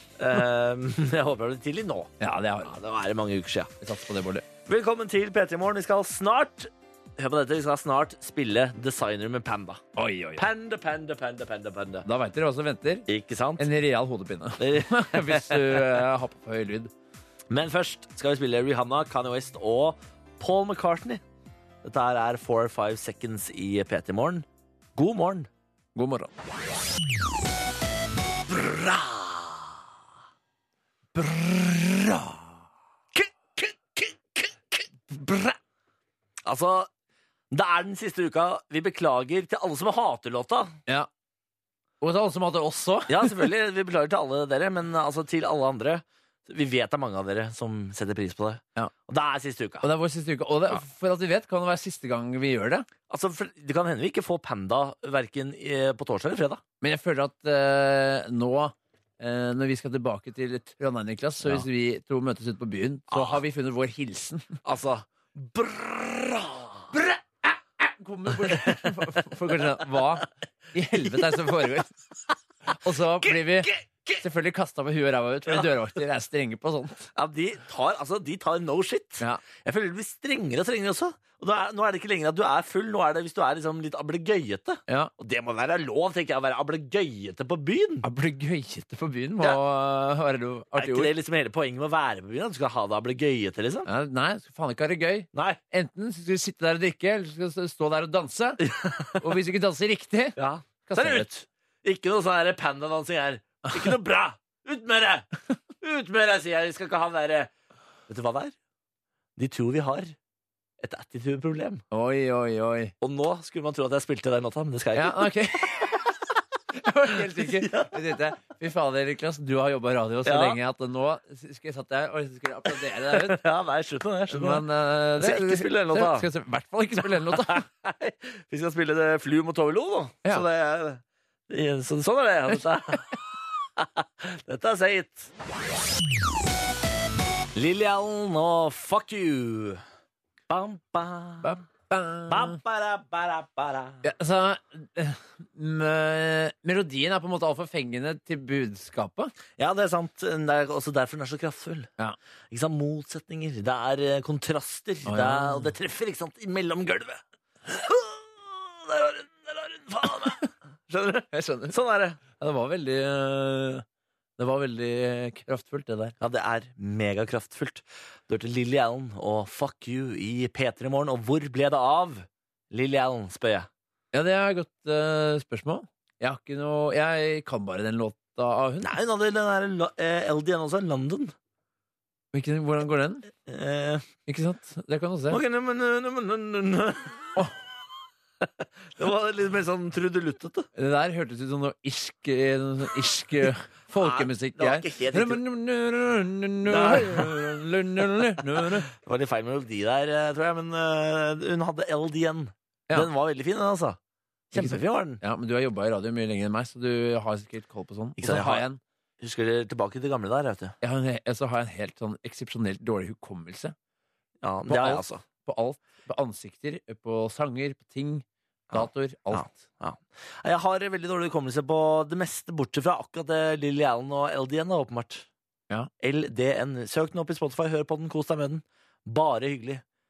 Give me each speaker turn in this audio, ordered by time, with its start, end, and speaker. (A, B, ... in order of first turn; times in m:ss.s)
0:00.2-0:02.1 A
0:02.2-0:02.8 B
0:02.6-0:03.7 A
0:03.8-0:04.4 B
0:04.7-0:09.8 A
0:10.0-0:10.4 B
0:10.4-0:12.1 A
0:12.0-0:13.1 B
0:13.1-0:13.7 A
0:13.6-0:16.9 B
0:14.6-0:16.0 A
0:17.5-0:21.2 A
0:21.8-0:25.5 A
0:26.0-0:26.3 B
0:28.5-0:29.8 A
0:31.2-0:32.6 B
0:33.2-0:34.8 A
0:35.1-0:35.6 B
0:36.4-0:36.9 A
0:37.5-0:40.8 A
0:42.0-0:43.4 B
0:43.1-0:49.9 A
0:49.8-0:52.9 B
0:53.1-0:56.6 A
0:56.8-1:04.5 B
1:03.1-1:03.4 A
1:04.6-1:06.9 A
1:06.9-1:11.9 B
1:08.3-1:09.2 A
1:12.7-1:17.1 B
1:13.2-1:14.2 A
1:17.2-1:28.0 A
1:28.0-1:31.1 B
1:30.8-1:33.9 A
1:33.9-1:38.7 B
1:35.3-1:35.6 A
1:38.6-1:39.3 A
1:39.2-1:41.3 B
1:40.4-1:47.5 A
1:48.1-1:48.5 A
1:49.4-1:50.1 A
1:50.8-1:51.8 A
1:51.9-1:52.9 B
1:53.0-1:55.9 A
1:54.9-1:56.1 B
1:56.7-2:03.4 B
1:57.1-1:58.2 A
2:00.2-2:00.6 A
2:03.0-2:06.3 A
2:04.3-2:07.6 B
2:07.0-2:15.3 A
2:17.6-2:19.8 A
2:20.5-2:21.5 A
2:21.4-2:22.6 B
2:22.3-2:24.0 A
2:24.0-2:29.3 B
2:29.6-2:31.9 A
2:32.5-2:42.2 A
2:35.0-2:35.7 B
2:41.3-2:41.7 B
2:42.4-2:43.8 B
2:44.4-2:46.2 B
2:46.2-2:53.7 A
2:54.1-2:58.9 B
2:58.8-3:01.3 A
3:02.3-3:03.3 B
3:03.5-3:04.1 A
3:04.3-3:05.4 B
3:05.3-3:07.4 A
3:08.4-3:10.7 A
3:10.8-3:18.9 B
3:14.0-3:15.4 A
3:16.7-3:17.4 A
3:18.6-3:24.0 A
3:24.5-3:25.2 A
3:24.5-3:28.8 B
3:28.2-3:28.6 A
3:29.2-3:30.8 A
3:30.8-3:33.8 B
3:34.4-3:35.2 A
3:34.7-3:39.5 B
3:38.7-3:45.3 A
3:46.0-3:49.8 A